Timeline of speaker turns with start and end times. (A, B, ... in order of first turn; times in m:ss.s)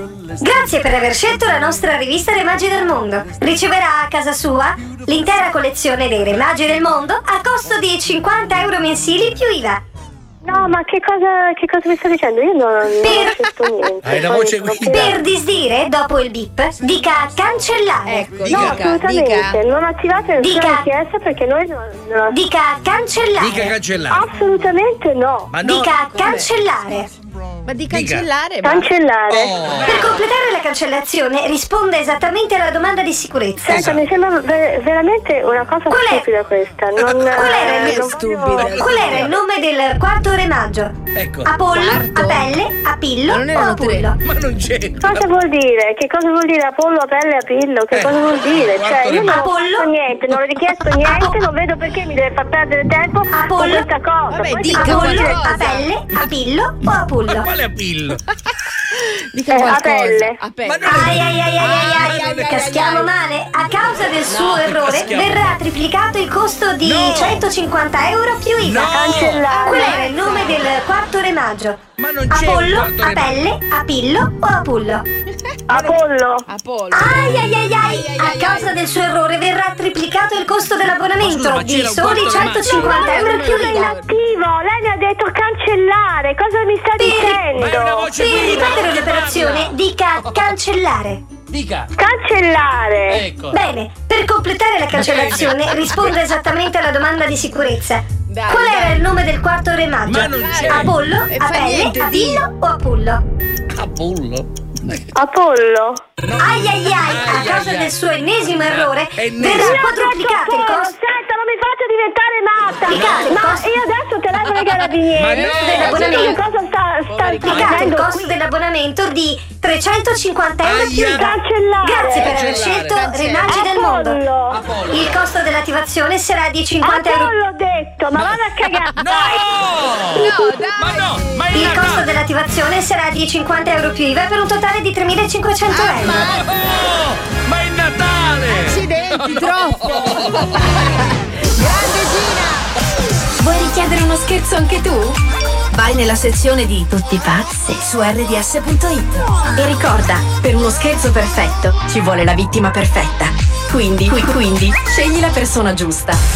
0:00.4-0:09.8 A
0:10.4-0:15.2 B
0:13.0-0:13.4 A
0:14.0-0:15.1 C
0:14.9-0:18.5 A
0:18.0-0:19.6 D
0:18.4-0:22.4 B
0:18.5-0:18.8 C
0:20.4-0:20.9 A
0:22.3-0:23.7 A
0:23.4-0:24.2 C
0:24.1-0:25.5 B
0:25.5-0:26.0 C
0:25.6-0:27.1 A
0:26.1-0:26.5 D
0:27.6-0:28.9 D
0:27.9-0:28.3 C
0:28.6-0:29.6 B
0:29.3-0:30.2 C
0:29.8-0:33.9 A
0:33.6-0:38.9 B
0:33.7-0:34.0 C
0:35.9-0:36.3 A
0:37.0-0:37.6 C
0:37.3-0:38.1 A
0:37.6-0:39.3 D
0:38.5-0:39.4 C
0:38.6-0:44.2 A
0:41.1-0:41.6 C
0:41.7-0:42.5 D
0:43.2-0:44.1 D
0:44.2-0:45.3 C
0:45.0-0:55.5 B
0:47.9-0:49.4 C
0:49.2-0:49.9 A
0:50.3-0:50.8 C
0:53.3-0:53.9 A
0:54.3-0:56.0 D
0:54.7-0:57.5 A
0:57.2-0:58.2 C
0:58.9-1:01.0 D
0:59.5-1:00.4 B
1:00.6-1:02.8 C
1:00.8-1:15.0 A
1:01.6-1:03.1 D
1:04.3-1:04.5 D
1:04.4-1:05.6 C
1:06.8-1:07.4 C
1:08.6-1:09.5 C
1:08.9-1:10.1 B
1:09.5-1:10.6 D
1:12.0-1:13.4 C
1:15.7-1:16.5 B
1:15.7-1:16.0 C
1:16.5-1:18.8 D
1:16.9-1:23.9 A
1:21.2-1:23.1 C
1:22.6-1:28.8 B
1:22.8-1:24.1 D
1:27.0-1:27.5 A
1:27.5-1:30.5 C
1:28.1-1:31.3 A
1:31.5-1:31.9 C
1:32.0-1:33.2 B
1:33.1-1:33.6 C
1:33.5-1:43.2 A
1:34.9-1:36.2 C
1:38.3-1:39.0 D
1:40.0-1:40.9 C
1:40.3-1:42.5 D
1:43.7-1:45.1 C
1:45.1-1:46.0 B
1:46.2-1:48.0 C
1:46.4-1:50.9 A
1:48.6-1:49.9 C
1:49.6-1:58.3 B
1:52.9-1:53.7 A
1:52.9-1:53.3 C
1:55.1-1:56.3 C
1:55.3-1:56.4 D
1:55.6-1:56.4 A
1:57.1-1:58.0 D
1:57.4-2:04.2 A
1:57.5-1:57.8 C
2:00.6-2:01.3 C
2:01.0-2:02.4 B
2:02.2-2:03.0 C
2:03.0-2:03.6 D
2:03.5-2:04.6 B
2:04.5-2:05.2 C
2:04.9-2:07.3 A
2:06.8-2:09.5 B
2:08.2-2:12.1 C
2:09.6-2:11.6 D
2:11.5-2:16.4 A
2:15.7-2:16.6 D
2:16.2-2:20.8 C
2:18.5-2:22.6 D
2:23.4-2:25.2 E
2:25.7-2:36.2 E